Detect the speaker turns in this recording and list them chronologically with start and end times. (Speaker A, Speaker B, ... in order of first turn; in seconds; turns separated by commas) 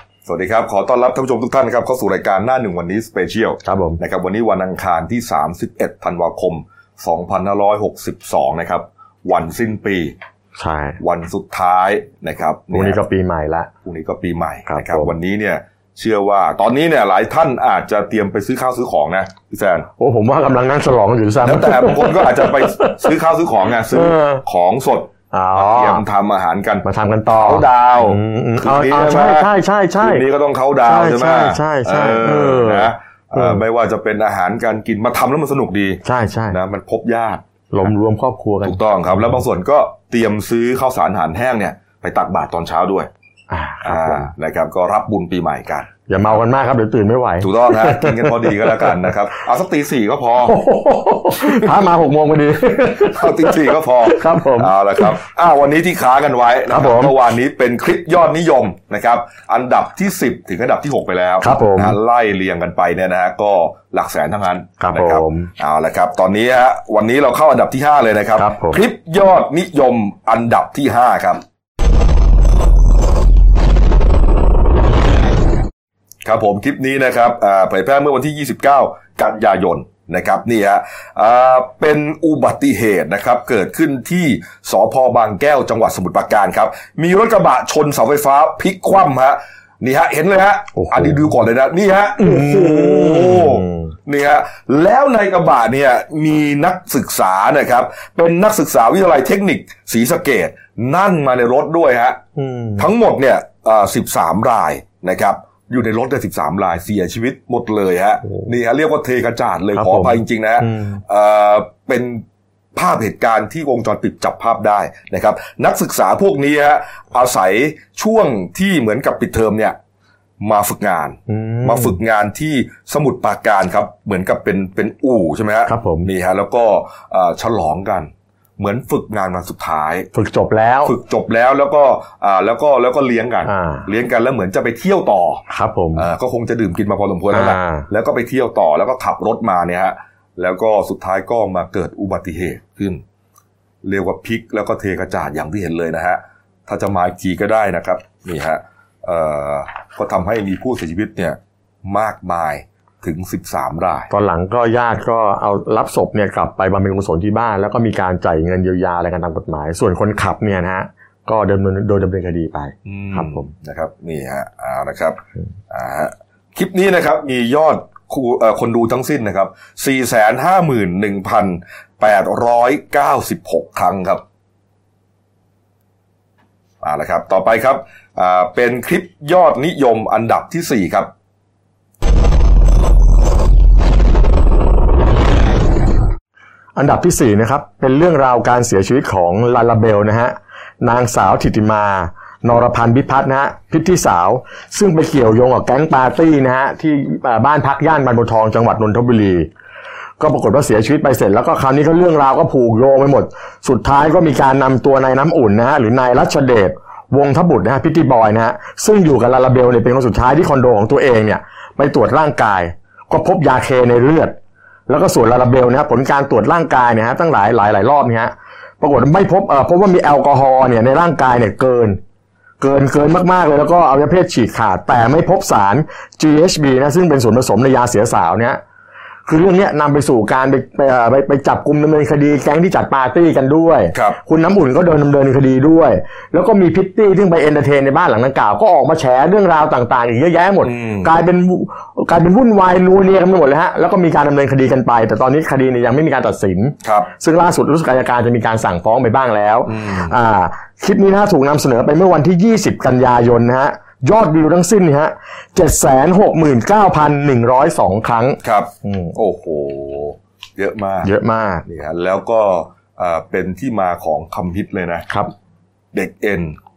Speaker A: 0.3-10.2, Speaker B: 3.6-4.0, Speaker B: 10.6-11.0, Speaker A: 11.0-13.0, Speaker B: 12.7-13.7, Speaker A: 13.8-19.9, Speaker B: 14.7-15.1, Speaker B: 20.0-23.1, Speaker A: 21.4-29.5, Speaker B: 23.9-24.4, Speaker B: 25.3-26.0, Speaker B: 26.8-30.2, Speaker A: 30.0-37.9, Speaker B: 30.9-33.6, Speaker B: 36.0-36.6, Speaker B: 37.7-38.8, Speaker A: 38.6-43.1, Speaker B: 43.5-44.3, Speaker A: 43.8-45.9, Speaker B: 46.1-49.1, Speaker A: 47.4-50.6, Speaker B: 50.5-55.1, Speaker A: 53.0-71.4, Speaker B: 56.7-57.2, Speaker B: 61.4-62.0, Speaker B: 64.8-65.5, Speaker B: 68.4-68.8, Speaker A: 76.2-102.2, Speaker B: 90.8-91.3, Speaker B: 92.2-93.9, Speaker B: 102.4-102.9, Speaker A: 102.8-112.2, Speaker B: 109.7-111.0, Speaker A: 112.8-119.8, Speaker A: 120.4-130.1, Speaker B: 121.3-122.0, Speaker B: 125.7-126.1, Speaker B: 130.1-130.9, Speaker A: 130.8-135.4, Speaker B: 133.5-133.9, Speaker B: 135.5-136.1, Speaker A: 136.0-143.0, Speaker B: 137.3-137.9, Speaker A: 143.8-154.1, Speaker B: 154.1-163.5, Speaker A: 162.9-165.2, Speaker A: 165.7-174.2, Speaker A: 176.8-181.1, Speaker B: 186.8-199.5, Speaker B: 200.2-214.3, Speaker B: 214.9-222.0, Speaker B: 222.6-228.6, Speaker B: 229.3-259.2, Speaker A: 240.6-241.1, Speaker A: 249.7-250.1, Speaker A: 258.4-261.1, Speaker B: 261.0-261.7, Speaker A: 261.7-265.1, Speaker A: 265.9-266.6